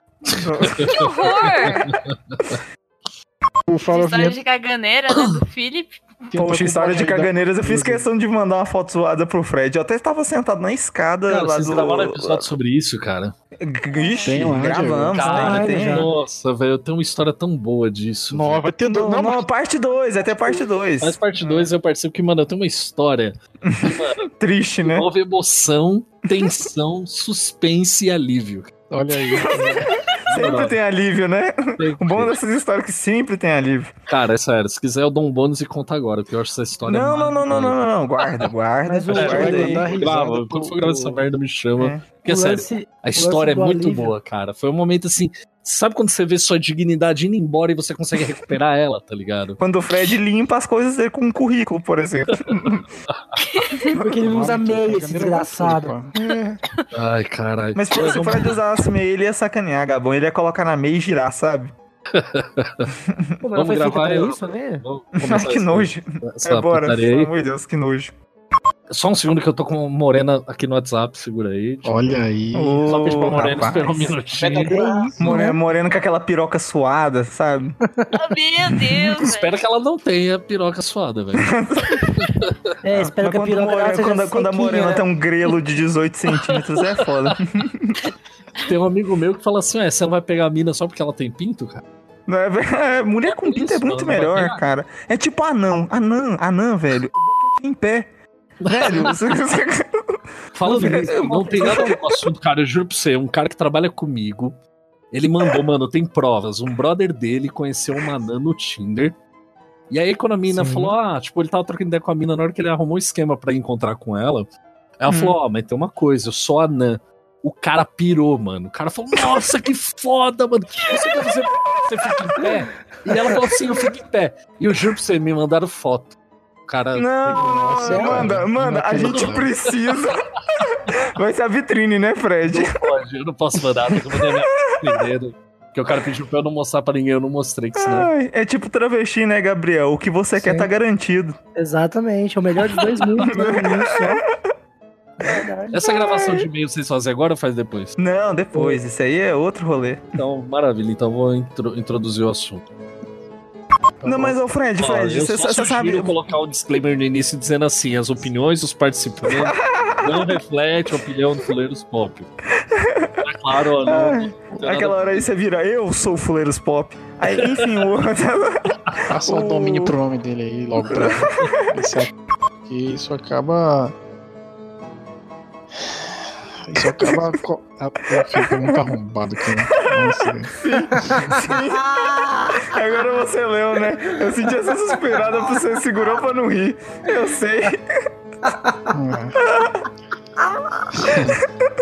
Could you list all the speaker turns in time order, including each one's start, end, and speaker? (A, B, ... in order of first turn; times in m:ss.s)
0:00.3-0:02.6 A
0:00.4-0:01.4 B
0:00.9-0:01.9 C
0:03.7-0:04.4 D
0:03.9-0:06.2 C
0:06.3-0:07.7 D
0:06.3-0:12.5 B
0:07.7-0:08.0 E
0:11.3-0:13.3 A
0:13.6-0:16.1 B
0:13.9-0:14.5 C
0:14.2-0:15.2 D
0:15.1-0:18.7 A
0:15.2-0:16.1 E
0:18.3-0:19.4 D
0:18.9-0:21.7 B
0:20.3-0:24.1 A
0:23.6-0:25.1 B
0:24.8-0:28.7 A
0:26.3-0:26.7 B
0:28.9-0:29.9 D
0:29.3-0:33.9 B
0:30.3-0:30.7 A
0:31.8-0:32.4 A
0:34.1-0:37.8 A
0:36.8-0:39.8 B
0:38.8-0:40.0 E
0:39.1-0:49.6 A
0:39.2-0:41.2 D
0:41.8-0:42.0 B
0:42.2-0:44.2 E
0:49.6-0:52.8 B
0:52.6-0:53.3 A
0:53.4-0:53.8 C
0:53.9-0:55.9 E
0:54.2-0:56.2 D
0:56.2-0:56.6 B
0:56.9-0:58.6 A
0:57.7-1:01.7 B
1:02.1-1:02.9 A
1:03.0-1:03.4 B
1:03.4-1:04.8 E
1:03.5-1:07.3 A
1:05.2-1:08.1 B
1:08.9-1:12.1 A
1:11.8-1:13.8 D
1:12.5-1:14.1 B
1:12.9-1:14.9 A
1:14.4-1:15.6 E
1:14.4-1:14.7 D
1:15.2-1:17.8 B
1:18.1-1:19.6 C
1:18.8-1:19.3 B
1:19.2-1:21.5 A
1:21.4-1:22.3 B
1:22.2-1:22.5 A
1:22.8-1:25.0 E
1:22.9-1:28.0 B
1:26.5-1:27.3 A
1:28.6-1:31.8 A
1:32.3-1:38.1 B
1:33.3-1:34.6 A
1:38.6-1:39.2 A
1:38.6-1:42.2 B
1:40.5-1:44.6 A
1:40.7-1:41.8 E
1:45.1-1:49.2 A
1:49.9-1:54.5 A
1:50.5-1:50.9 E
1:55.0-2:06.2 A
1:55.1-1:55.4 B
2:06.7-2:08.4 A
2:06.9-2:10.2 B
2:07.3-2:09.5 D
2:07.8-2:08.3 E
2:09.0-2:10.2 A
2:11.1-2:12.8 B
2:12.5-2:18.1 A
2:14.2-2:15.0 B
2:17.8-2:21.4 B
2:20.4-2:20.7 E
2:21.6-2:24.2 E
2:22.7-2:23.3 A
2:23.2-2:24.2 B
2:25.2-2:25.8 E
2:25.7-2:28.0 A
2:25.8-2:26.4 B
2:28.0-2:30.1 B
2:28.5-2:28.8 E
2:30.1-2:32.6 A
2:34.0-2:36.2 B
2:34.0-2:42.3 A
2:39.3-2:40.4 B
2:42.7-2:43.2 B
2:43.2-2:45.0 A
2:43.8-2:49.9 B
2:47.3-2:47.6 A
2:49.1-2:52.1 D
2:52.6-2:53.9 D
2:56.6-3:00.6 D
2:56.8-2:57.3 B
2:58.1-2:58.8 B
2:59.7-3:01.9 B
3:00.7-3:02.7 E
3:02.7-3:07.9 B
3:04.3-3:05.8 E
3:08.4-3:09.0 E
3:08.9-3:09.4 D
3:09.5-3:09.8 B
3:10.5-3:10.8 E
3:11.0-3:11.4 D